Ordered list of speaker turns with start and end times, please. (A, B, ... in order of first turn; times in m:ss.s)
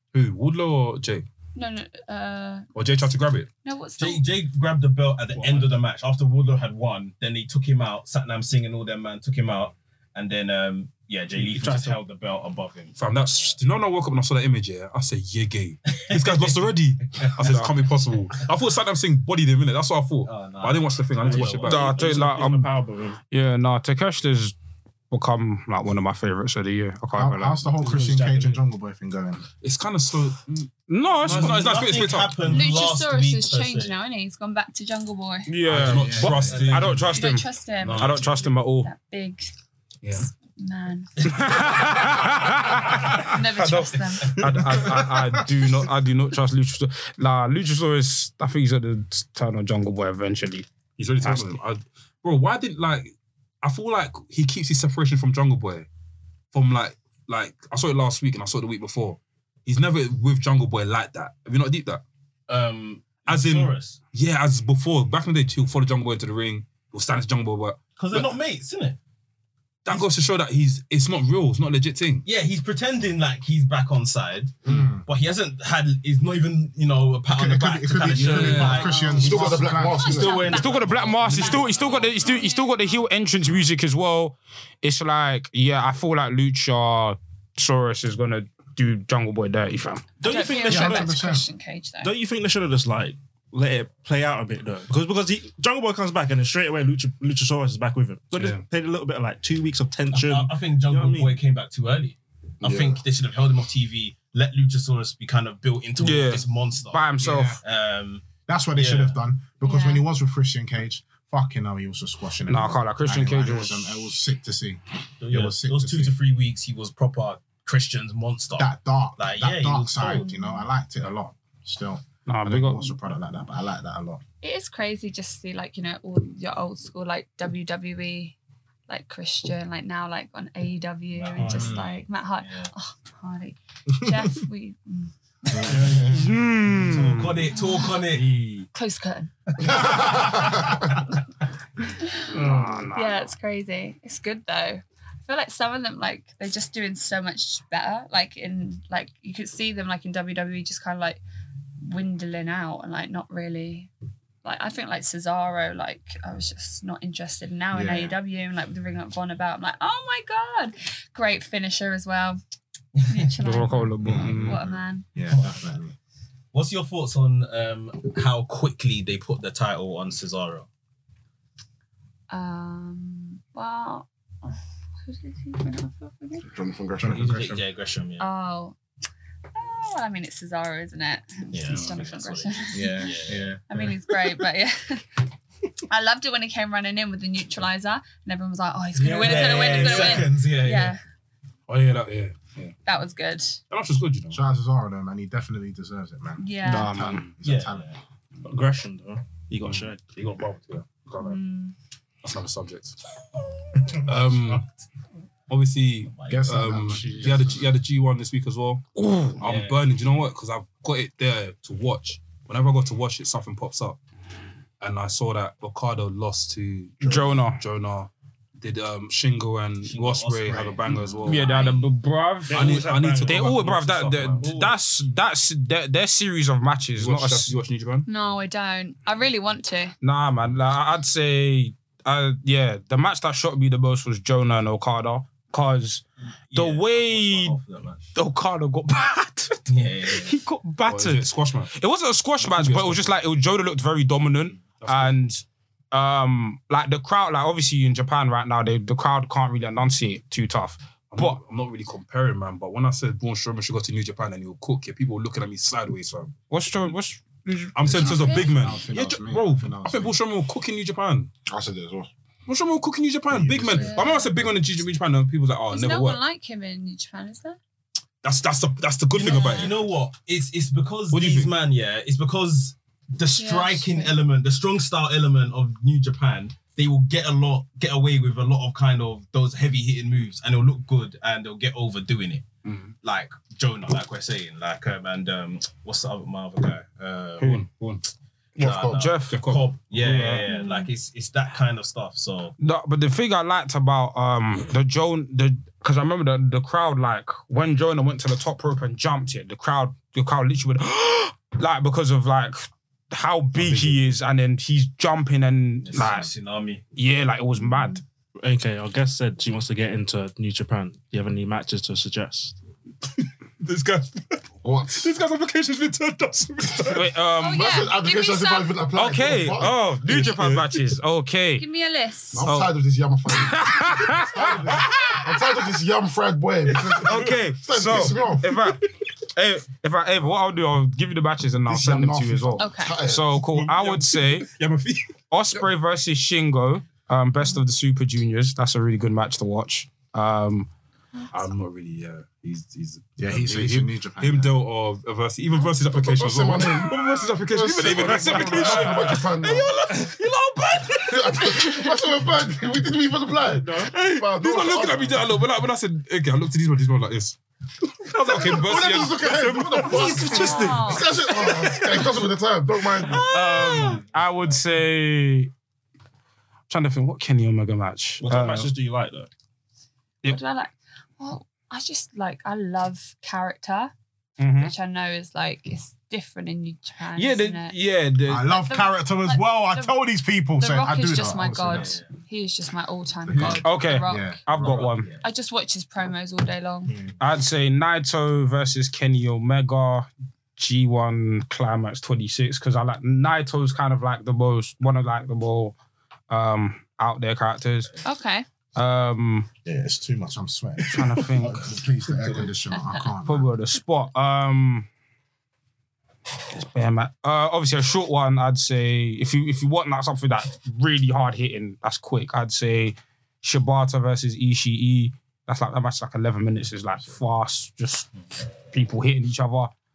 0:00.1-0:01.3 A
0:01.6-0:02.7 B
0:02.8-0:03.5 A
0:03.6-0:04.2 B
0:04.0-0:13.6 C
0:11.4-0:12.0 D
0:13.0-0:22.3 A
0:15.9-0:17.4 C
0:17.4-0:17.7 E
0:20.2-0:22.3 C
0:21.3-0:23.2 D
0:21.6-0:22.7 E
0:23.3-0:24.5 E
0:25.1-0:27.7 E
0:27.2-0:29.4 F
0:27.7-0:28.6 D
0:29.6-0:32.7 A
0:30.9-0:31.9 E
0:31.3-0:34.0 C
0:32.5-0:35.5 B
0:35.5-0:38.9 E
0:35.7-0:37.2 A
0:35.8-0:36.5 F
0:36.2-0:37.3 C
0:37.1-0:39.5 B
0:37.8-0:38.3 A
0:37.9-0:38.5 C
0:40.0-0:40.3 A
0:40.5-0:42.0 B
0:41.2-0:41.9 C
0:41.3-0:50.7 E
0:42.8-0:44.4 B
0:44.5-0:45.5 F
0:51.0-0:55.9 A
0:51.2-0:51.5 E
0:56.5-1:02.0 A
1:02.5-1:04.0 C
1:03.3-1:08.3 A
1:08.0-1:09.0 C
1:09.8-1:12.3 A
1:12.2-1:22.5 C
1:14.7-1:15.1 F
1:17.3-1:20.1 F
1:18.1-1:18.9 A
1:18.6-1:23.0 B
1:19.1-1:20.6 G
1:20.5-1:30.1 E
1:30.2-1:31.2 D
1:30.2-1:32.1 B
1:30.7-1:31.4 F
1:32.0-1:41.4 D
1:38.3-1:38.6 A
1:40.1-1:49.2 C
1:42.6-1:43.0 G
1:46.0-1:47.6 E
1:47.2-1:47.6 F
1:48.5-1:56.2 F
1:49.6-1:50.1 B
1:52.5-1:54.1 E
1:55.2-2:00.3 C
1:58.6-2:04.2 F
2:00.0-2:00.7 B
2:02.3-2:03.0 E
2:04.4-2:08.4 B
2:08.9-2:16.0 B
2:11.1-2:11.9 C
2:11.4-2:11.7 D
2:11.4-2:11.9 F
2:12.4-2:12.7 C
2:15.7-2:16.8 D
2:15.8-2:16.2 C
2:16.1-2:17.4 E
2:16.8-2:18.3 C
2:17.5-2:18.0 B
2:18.0-2:18.7 D
2:18.7-2:20.2 B
2:19.8-2:20.4 G
2:22.0-2:31.2 B
2:22.3-2:23.3 E
2:22.5-2:22.8 D
2:31.8-2:33.9 B
2:34.4-2:42.4 B
2:37.7-2:38.2 F
2:43.0-2:43.3 C
2:43.1-2:45.1 B
2:43.4-2:44.6 E
2:44.0-2:45.9 F
2:45.3-2:45.7 C
2:46.5-2:50.7 C
2:52.3-2:56.5 B
2:56.5-2:57.3 G
2:57.0-2:57.6 F
2:57.1-2:58.3 C
2:58.2-2:58.8 B
2:59.5-3:03.1 B
3:01.5-3:03.5 C
3:02.7-3:03.9 F
3:03.7-3:05.1 B
3:05.9-3:11.0 B
3:08.9-3:11.0 C
3:11.7-3:12.8 A
3:12.8-3:13.6 B
3:13.7-3:14.4 A
3:14.3-3:17.9 F
3:16.4-3:17.0 B
3:16.6-3:17.3 E
3:17.4-3:18.0 C
3:18.4-3:20.0 D
3:19.6-3:21.4 A
3:21.2-3:21.8 B
3:22.2-3:23.0 A
3:23.9-3:24.6 A
3:25.5-3:34.0 A
3:26.1-3:26.5 C
3:26.3-3:27.6 F
3:29.0-3:29.4 E
3:29.4-3:29.9 C
3:34.8-3:41.6 A
3:37.0-3:37.6 E
3:39.8-3:41.9 C
3:41.2-3:47.6 E
3:41.3-3:41.8 B
3:42.4-3:43.6 D
3:42.5-3:44.6 A
3:44.4-3:44.8 D
3:47.0-3:48.1 A
3:48.1-3:50.0 B
3:50.0-3:57.6 E
3:56.5-3:58.1 C
3:58.2-4:11.4 E
3:59.7-4:00.4 C
4:00.9-4:01.7 A
4:02.4-4:03.2 A
4:04.6-4:05.2 A
4:11.1-4:16.3 A
4:16.5-4:18.4 E
4:17.8-4:21.3 A
4:17.9-4:20.2 F
4:17.9-4:18.5 B
4:21.5-4:22.1 G
4:22.5-4:26.2 A
4:23.3-4:24.0 F
4:23.4-4:23.8 G
4:23.8-4:24.3 B
4:25.7-4:27.6 B
4:28.2-4:29.8 A
4:29.2-4:42.5 C
4:29.2-4:29.8 B
4:31.1-4:31.5 A
4:33.4-4:34.2 B
4:42.6-4:42.9 A
4:43.0-4:47.6 C
4:47.4-4:48.0 A
4:48.6-4:50.5 E
4:48.6-4:52.6 C
4:48.6-4:49.0 G
4:49.3-4:50.3 A
4:50.5-4:50.9 B
4:52.6-5:06.3 E
5:03.6-5:04.1 A
5:05.8-5:06.8 C
5:07.0-5:08.0 E
5:08.4-5:12.6 D
5:13.2-5:14.4 A
5:14.6-5:15.1 G
5:15.0-5:17.1 A
5:16.8-5:17.9 E
5:17.4-5:18.8 B
5:17.5-5:19.8 G
5:18.9-5:21.6 E
5:19.6-5:20.8 A
5:21.6-5:22.5 B
5:22.3-5:28.6 G
5:22.4-5:22.8 E
5:23.3-5:25.4 E
5:26.9-5:34.5 E
5:31.7-5:33.4 G
5:32.6-5:33.0 B
5:33.4-5:35.1 A
5:35.3-5:40.7 E
5:41.3-5:51.4 A
5:43.2-5:44.6 F
5:45.9-5:49.8 G
5:47.9-5:51.7 E
5:51.0-5:55.3 G
5:53.6-5:53.9 D
5:53.9-5:57.4 A
5:58.0-6:02.2 A
5:58.2-6:03.3 G
5:59.8-6:01.1 B
6:00.3-6:00.9 E
6:03.2-6:05.5 E
6:06.7-6:08.7 E
6:08.2-6:09.3 D
6:10.2-6:13.9 B
6:14.4-6:14.7 E
6:14.5-6:17.8 B
6:17.2-6:18.6 A
6:18.3-6:22.0 F
6:18.5-6:20.0 B
6:20.6-6:24.4 B
6:21.7-6:22.1 C
6:23.3-6:24.8 F
6:23.3-6:23.9 C
6:23.6-6:25.1 E
6:24.5-6:25.2 C
6:25.2-6:26.9 B
6:27.2-6:35.8 E
6:36.3-6:37.9 E
6:38.0-6:38.5 B
6:38.8-6:39.5 E
6:39.6-6:43.5 F
6:40.9-6:41.7 E
6:42.7-6:43.0 B
6:43.2-6:44.9 E
6:46.5-6:58.1 E
6:58.7-6:59.7 E